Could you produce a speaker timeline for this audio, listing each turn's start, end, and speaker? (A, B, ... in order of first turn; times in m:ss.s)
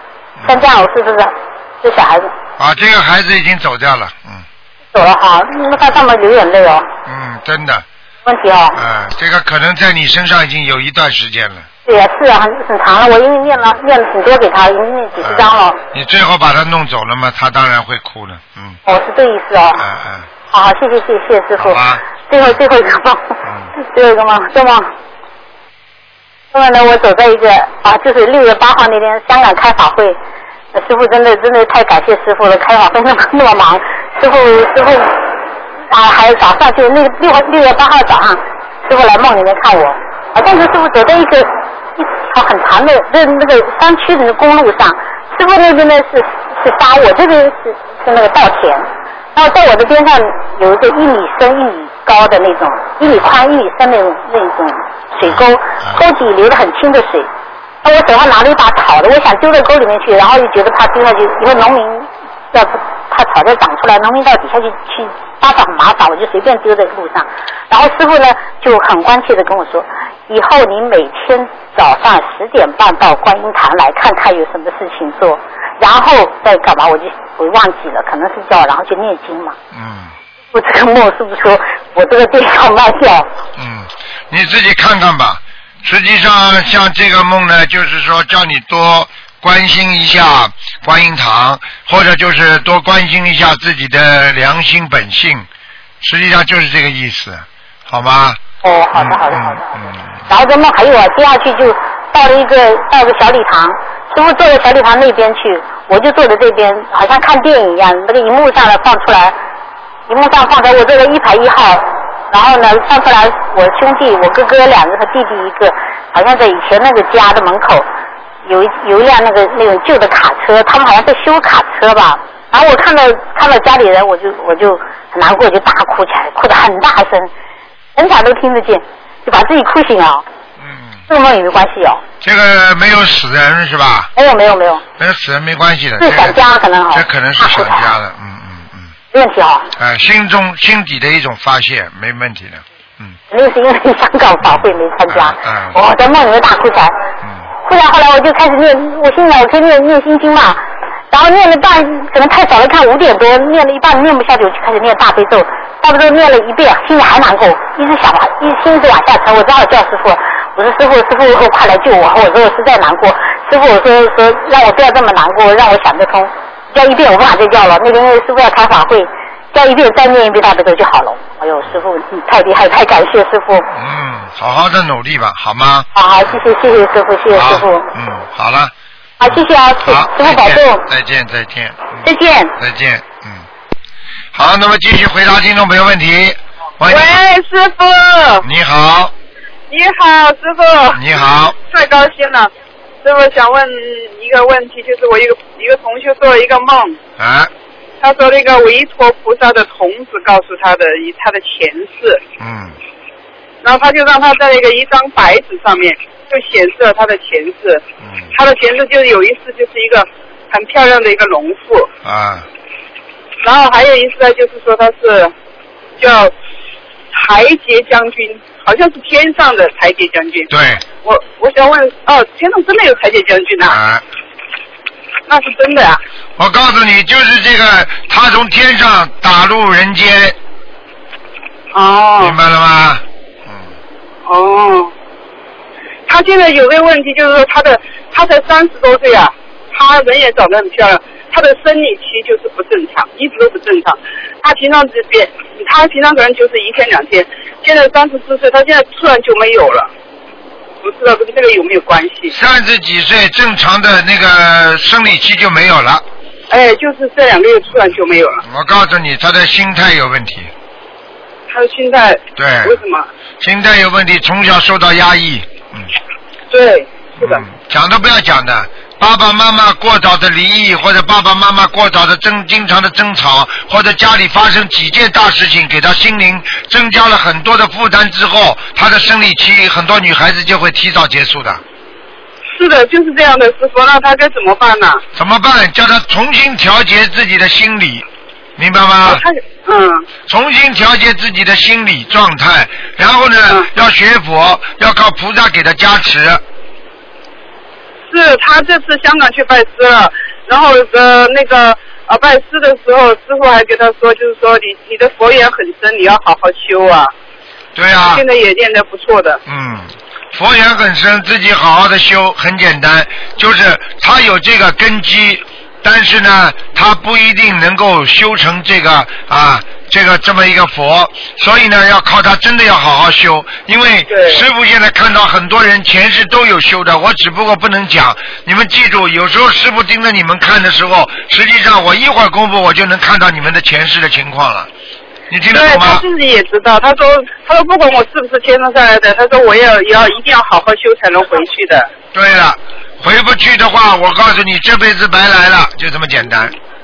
0:00.4-0:00.7 A
0:00.4-0:02.3 B
0:02.6-0:04.4 A
0:04.9-0:06.9 B
0:07.0-0:07.8 A
0:08.2-0:08.8 B
0:08.8-0:11.7 A
0:11.8-0:15.8 B
0:15.2-0:18.8 A
0:18.8-0:19.8 B
0:19.8-0:20.3 A
0:20.5-0:24.9 B
0:21.6-0:22.6 A
0:23.4-0:23.7 A
0:26.5-0:30.2 B
0:30.7-0:35.3 B
0:35.9-0:57.3 B
0:55.2-0:56.0 A
0:57.8-1:19.6 B
1:19.7-1:20.1 A
1:20.5-1:23.3 B
1:23.6-1:35.5 A
1:36.0-1:38.4 A
1:38.6-1:49.3 B
1:38.9-1:40.1 A
1:50.1-1:57.8 B
1:58.4-2:07.3 B
2:08.0-2:10.2 B
2:10.6-2:11.0 A
2:11.1-2:12.0 B
2:12.2-2:14.1 A
2:14.2-2:14.8 B
2:15.0-2:16.4 A
2:16.0-2:17.8 B
2:16.9-2:18.9 A
2:19.1-2:19.7 B
2:19.8-2:23.2 A
2:23.3-2:26.9 B
2:24.4-2:25.8 A
2:27.6-2:53.6 B
2:53.7-2:56.3 A
2:55.9-2:57.9 B
2:57.3-2:58.7 A
2:59.2-3:00.8 B
2:59.2-3:02.1 A
3:02.0-3:02.5 B
3:02.6-3:03.5 A
3:04.3-3:07.2 A
3:06.9-3:08.4 C
3:08.4-3:09.1 A
3:09.7-3:12.5 C
3:10.9-3:11.6 A
3:13.0-3:17.0 C
3:17.2-3:17.5 A
3:18.0-3:22.2 C
3:22.4-3:22.8 A
3:23.6-3:27.8 C
3:28.0-3:28.3 A
3:28.3-3:31.9 C
3:32.0-3:32.5 A
3:33.4-3:35.3 C
3:36.0-3:36.3 C
3:37.1-3:40.5 C
3:40.5-3:40.8 A
3:41.0-3:43.8 C
3:43.6-3:44.0 A
3:45.3-3:46.0 C
3:46.4-3:50.4 A
3:51.7-3:52.4 C
3:52.2-3:53.7 A
3:54.2-3:54.9 C
3:56.1-4:09.9 C
4:10.8-4:12.3 C
4:12.3-4:16.0 A
4:16.5-4:18.4 C
4:18.4-4:20.5 A
4:21.5-4:23.0 C
4:22.4-4:22.8 A
4:23.4-4:25.9 A
4:26.5-4:27.4 C
4:27.2-4:41.6 A
4:42.5-4:45.0 C
4:45.1-4:48.0 A
4:48.6-4:49.2 A
4:49.0-4:50.0 C
4:50.3-4:56.4 A
4:58.1-5:07.1 C
5:07.8-5:08.2 A
5:08.1-5:09.4 C
5:09.4-5:34.7 A
5:24.1-5:24.4 C
5:35.3-5:36.0 A
5:35.5-5:41.9 C
5:42.1-5:46.5 A